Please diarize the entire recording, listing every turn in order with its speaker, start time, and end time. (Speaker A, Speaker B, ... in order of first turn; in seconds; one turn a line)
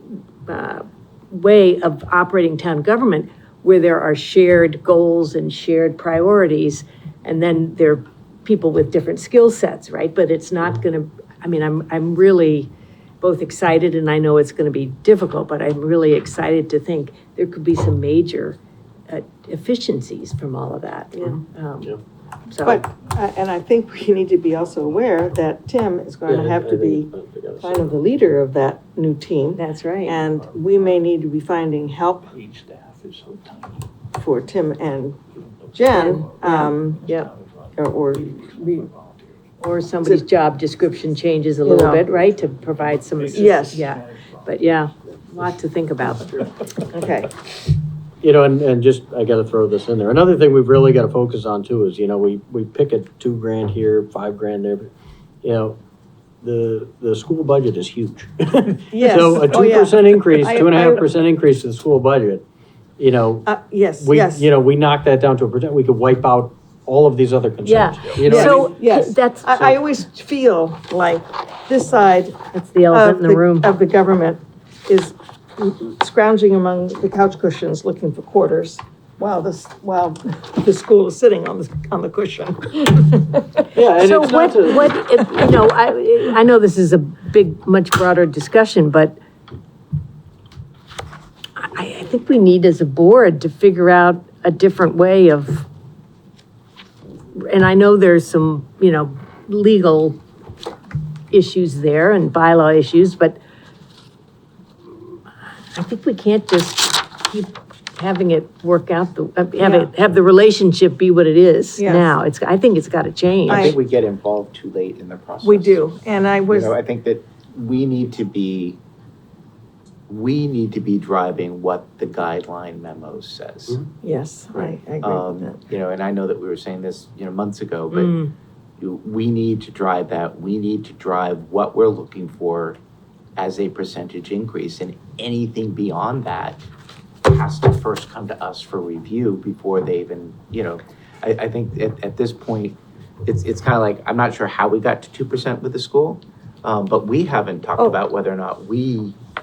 Speaker A: 0.5-18.6
Speaker A: 19.1-22.0
Speaker B: 21.2-22.0
Speaker A: 22.5-22.8
Speaker C: 22.6-32.3
Speaker B: 26.3-27.9
Speaker A: 29.6-30.2
Speaker D: 32.3-33.8
Speaker C: 34.1-35.2
Speaker D: 35.7-36.4
Speaker C: 35.7-37.1
Speaker A: 36.4-37.3
Speaker D: 37.1-37.6
Speaker C: 37.8-38.9
Speaker D: 38.9-39.2
Speaker A: 39.6-46.6
Speaker C: 41.6-42.1
Speaker D: 42.4-44.5
Speaker C: 43.4-43.8
Speaker C: 46.9-47.3
Speaker B: 48.2-54.9
Speaker B: 55.4-55.8
Speaker B: 56.4-62.4
Speaker C: 58.9-61.0
Speaker B: 63.0-63.5
Speaker C: 63.4-64.5
Speaker B: 64.0-68.7
Speaker A: 67.6-69.7
Speaker C: 68.2-83.7
Speaker A: 72.5-73.7
Speaker B: 83.7-84.9
Speaker A: 84.0-89.2
Speaker A: 91.6-95.7
Speaker A: 97.3-100.2
Speaker A: 101.3-103.4
Speaker A: 105.8-113.7
Speaker C: 109.6-109.9
Speaker C: 111.8-112.1
Speaker E: 113.5-115.8
Speaker C: 115.4-116.7
Speaker E: 116.5-118.8
Speaker E: 120.1-123.8
Speaker C: 124.0-125.6
Speaker E: 124.5-128.2
Speaker A: 127.9-128.3
Speaker E: 128.8-132.8
Speaker E: 133.3-136.6
Speaker E: 137.2-149.2